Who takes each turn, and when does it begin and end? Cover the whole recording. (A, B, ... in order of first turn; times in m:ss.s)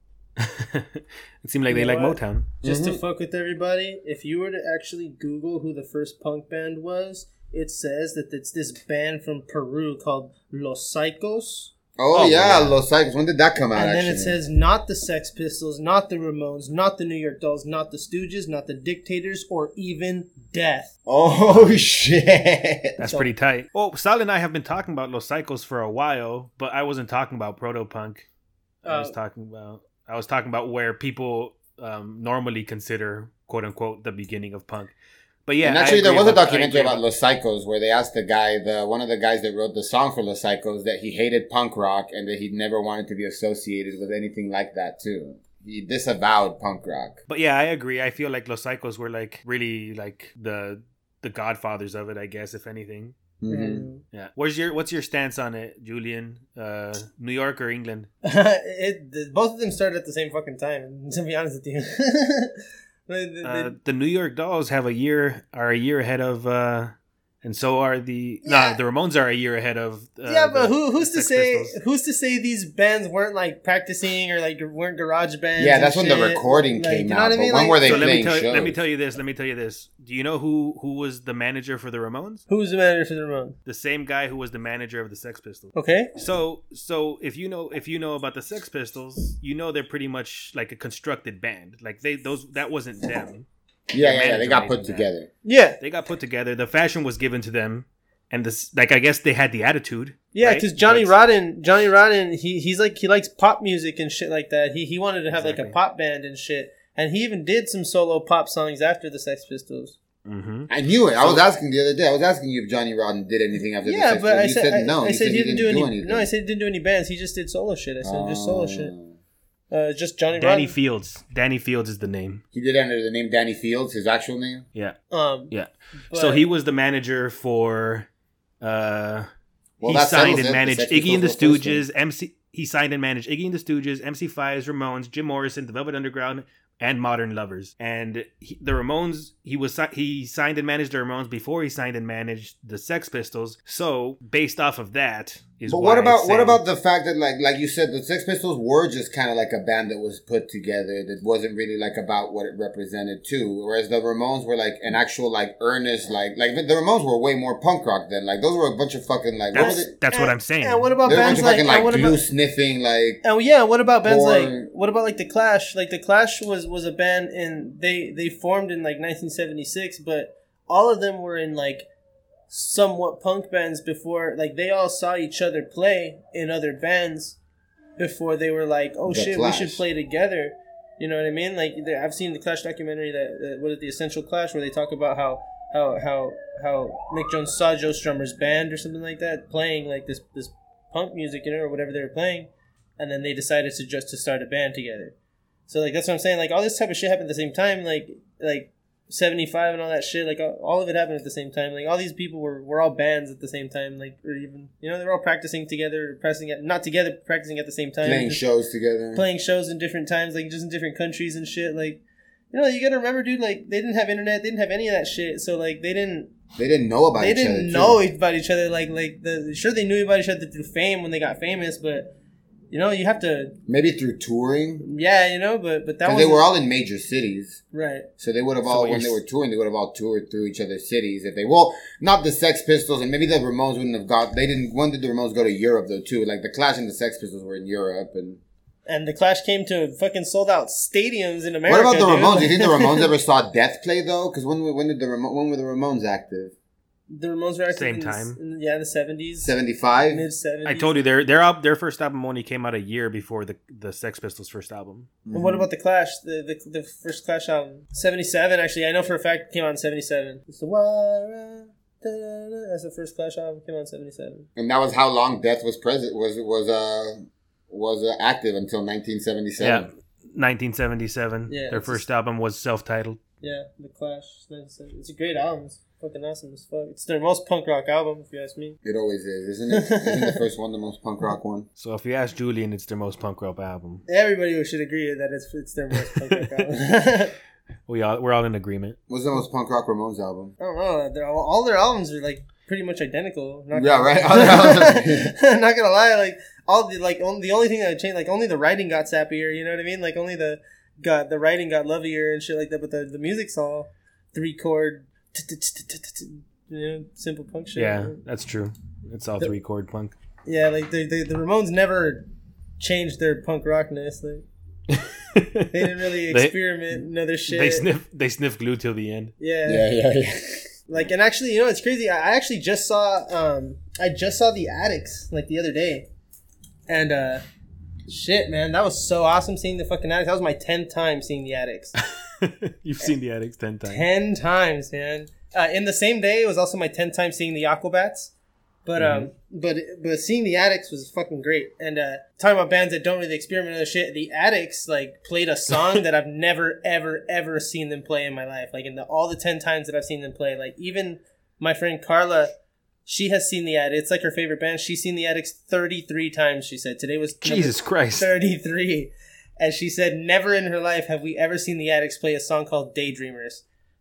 0:00.4-0:02.5 A
0:01.7-0:11.7 B
0:02.6-0:03.0 C
0:12.0-0:14.4 C
0:12.1-0:12.8 A
0:13.8-0:20.9 B
0:21.1-0:23.0 C
0:21.5-0:21.8 A
0:23.0-0:23.3 B
0:23.0-0:28.3 A
0:28.8-0:34.9 A
0:28.9-0:29.2 B
0:35.5-0:37.0 A
0:35.6-0:47.2 C
0:47.3-0:53.2 A
0:53.4-0:53.9 C
0:53.5-0:54.0 B
0:54.1-0:58.1 A
0:58.2-1:02.5 B
1:03.1-1:03.8 B
1:03.4-1:11.8 A
1:08.4-1:08.8 B
1:10.3-1:18.2 B
1:15.6-1:18.8 C
1:17.8-1:22.4 A
1:22.5-1:23.6 B
1:23.7-1:35.1 A
1:25.8-1:26.1 B
1:33.9-1:35.3 C
1:35.4-1:35.8 B
1:35.8-1:41.1 A
1:40.3-1:50.0 B
1:45.3-1:45.8 A
1:50.2-1:51.4 A
1:50.7-1:56.3 C
1:53.8-1:58.9 B
1:58.0-1:59.2 C
1:59.7-2:00.8 B
2:00.3-2:02.4 A
2:02.5-2:04.7 C
2:05.1-2:05.5 B
2:05.5-2:08.1 A
2:06.1-2:06.5 B
2:08.6-2:09.3 A
2:09.8-2:11.8 C
2:09.8-2:26.6 A
2:25.7-2:39.9 C
2:39.5-2:41.4 A
2:39.5-2:42.2 B
2:41.0-2:43.2 C
2:43.2-2:51.9 B
2:44.0-2:44.7 C
2:52.5-2:57.4 B
2:58.0-3:15.1 B
2:59.1-2:59.8 C
3:15.7-3:28.4 B
3:28.0-3:29.2 C
3:29.2-3:36.3 B
3:36.6-3:38.0 C
3:37.2-3:42.1 B
3:42.7-3:43.6 B
3:43.7-3:44.9 C
3:44.8-3:46.5 B
3:46.0-3:47.6 C
3:47.7-3:48.1 B
3:48.2-3:58.4 C
3:48.6-3:49.2 A
3:58.9-4:03.1 B
4:01.7-4:06.5 C
4:07.1-4:09.5 B
4:07.7-4:08.4 A
4:09.4-4:10.3 C
4:10.1-4:11.0 B
4:10.7-4:15.1 A
4:15.2-4:15.7 C
4:15.3-4:24.5 B
4:24.6-4:29.9 C
4:29.6-4:33.2 A
4:31.5-4:32.0 B
4:33.4-4:38.8 B
4:38.8-4:41.7 C
4:39.7-4:40.4 B
4:41.8-4:44.0 A
4:44.1-4:47.4 B
4:46.0-4:46.6 A
4:47.9-4:49.0 A
4:49.1-4:50.6 C
4:50.6-5:08.2 B
4:53.7-4:55.3 C
5:07.8-5:10.2 A
5:10.4-5:12.3 B
5:12.8-5:14.4 B
5:14.9-5:16.6 A
5:15.7-5:17.9 B
5:17.5-5:19.3 A
5:19.4-5:19.9 B
5:19.6-5:20.7 C
5:20.9-5:26.1 B
5:26.9-5:27.4 B
5:28.1-5:31.9 B
5:32.2-5:34.1 A
5:33.9-5:38.3 B
5:38.8-5:52.5 B
5:39.0-5:39.3 A
5:53.1-6:03.6 B
5:57.4-5:58.3 A